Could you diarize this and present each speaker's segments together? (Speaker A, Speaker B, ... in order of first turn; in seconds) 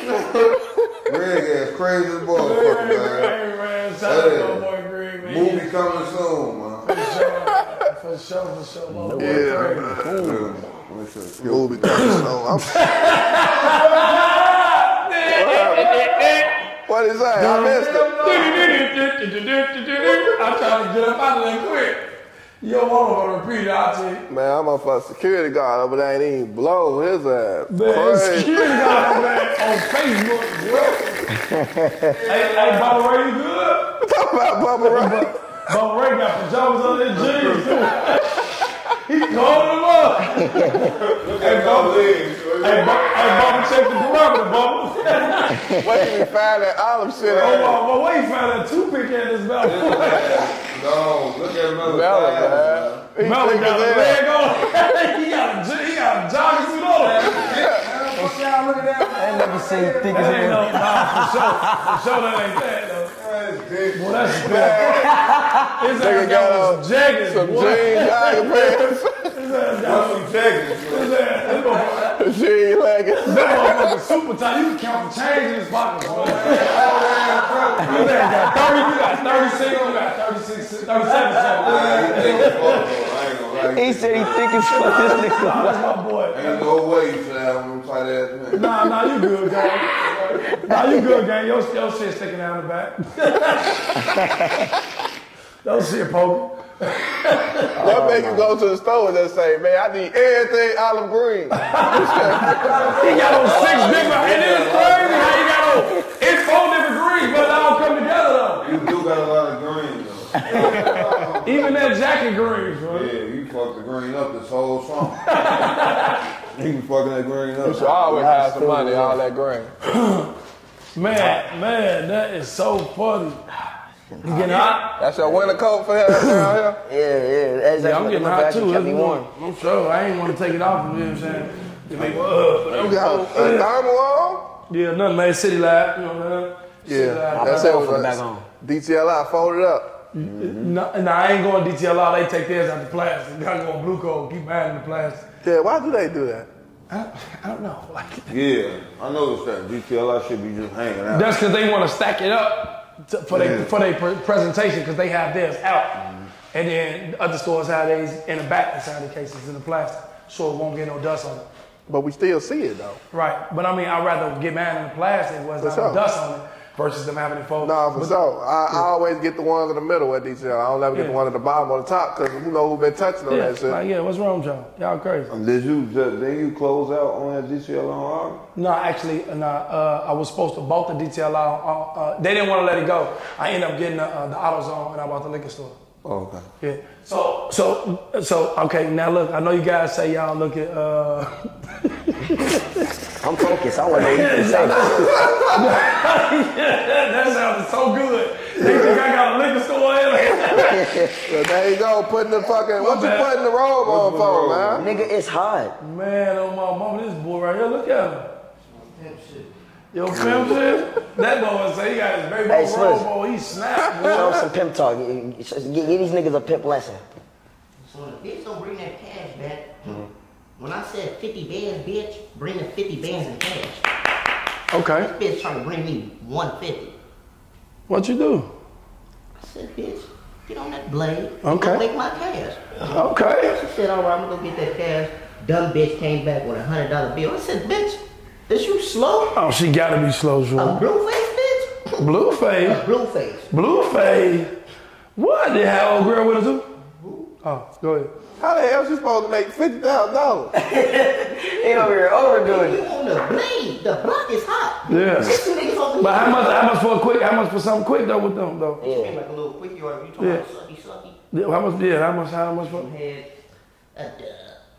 Speaker A: 1.1-3.4, 4.0-4.7, 5.2-6.9, 10.2-12.3, 32.2-33.0, 37.1-38.1, 40.8-44.0, 47.2-47.7, 49.6-53.0, 57.0-60.7, 63.1-64.8, 69.8-71.2, 76.0-78.4, 81.6-84.6, 86.3-89.0, 102.7-105.2, 108.6-111.9, 112.9-115.7, 116.5-118.0, 131.9-133.2, 140.1-140.8, 148.3-151.4, 153.3-153.7, 156.0-156.3, 175.3-178.4, 186.0-186.5, 195.1-195.5, 203.8-205.1, 210.1-210.6
Speaker B: 2.3-5.7, 6.9-10.1, 12.7-16.6, 17.3-22.1, 22.6-24.2, 27.7-31.2, 32.2-33.9, 34.8-45.7, 47.3-50.5, 53.2-57.4, 60.1-63.1, 63.9-65.1, 65.8-70.3, 70.9-72.2, 73.2-77.2, 77.8-82.9, 84.6-86.7, 88.5-94.3, 95.6-97.7, 101.6-108.8, 111.4-113.1, 115.3-116.2, 119.8-120.3, 121.0-123.5, 124.2-125.0, 126.1-126.6, 127.8-133.7, 134.7-137.9, 140.1-145.2, 146.9-148.3, 151.1-161.4, 163.1-168.1, 170.9-171.2, 173.3-175.3, 178.6-185.8, 186.6-192.7, 194.0-200.9, 202.6-203.3, 205.8-208.3, 209.9-214.5, 224.7-225.1, 227.9-228.5, 231.4-231.8, 232.9-233.6, 239.3-240.8, 242.0-242.8, 243.5-244.5, 245.2-246.7, 247.4-248.1, 254.9-255.4, 256.0-258.8, 260.2-260.4, 261.3-262.9
Speaker C: 2.9-3.2, 6.9-7.6, 9.2-10.1, 11.4-12.9, 15.3-18.8, 24.3-29.5, 34.0-35.5, 45.7-47.8, 51.8-54.2, 57.1-57.9, 64.3-65.1, 66.0-69.3, 72.2-74.0, 97.8-105.4, 110.5-111.4, 117.6-119.7, 125.0-126.8, 132.7-134.5, 136.9-140.0, 145.4-146.5, 161.9-163.0, 165.6-166.0, 167.6-173.8, 201.3-204.9, 213.9-214.3, 248.4-250.5
Speaker D: 8.9-10.6, 31.3-32.2, 40.4-40.9, 45.5-46.0, 59.2-62.0, 64.8-65.8, 77.8-78.9, 81.8-82.0, 83.7-85.8, 90.5-91.2, 93.9-94.7, 97.7-98.5, 117.6-119.2, 126.8-129.3, 137.3-138.4, 193.2-195.2, 200.5-201.2, 204.8-205.7, 212.5-213.1, 214.0-217.0, 250.5-252.8, 258.8-259.2
Speaker E: 124.1-124.8, 208.7-209.5, 217.8-220.1, 220.6-223.8, 224.9-226.9, 229.4-239.4, 240.6-242.1, 242.6-243.5, 246.9-247.3, 252.4-256.7, 258.8-261.2, 262.6-263.3, 263.9-264.6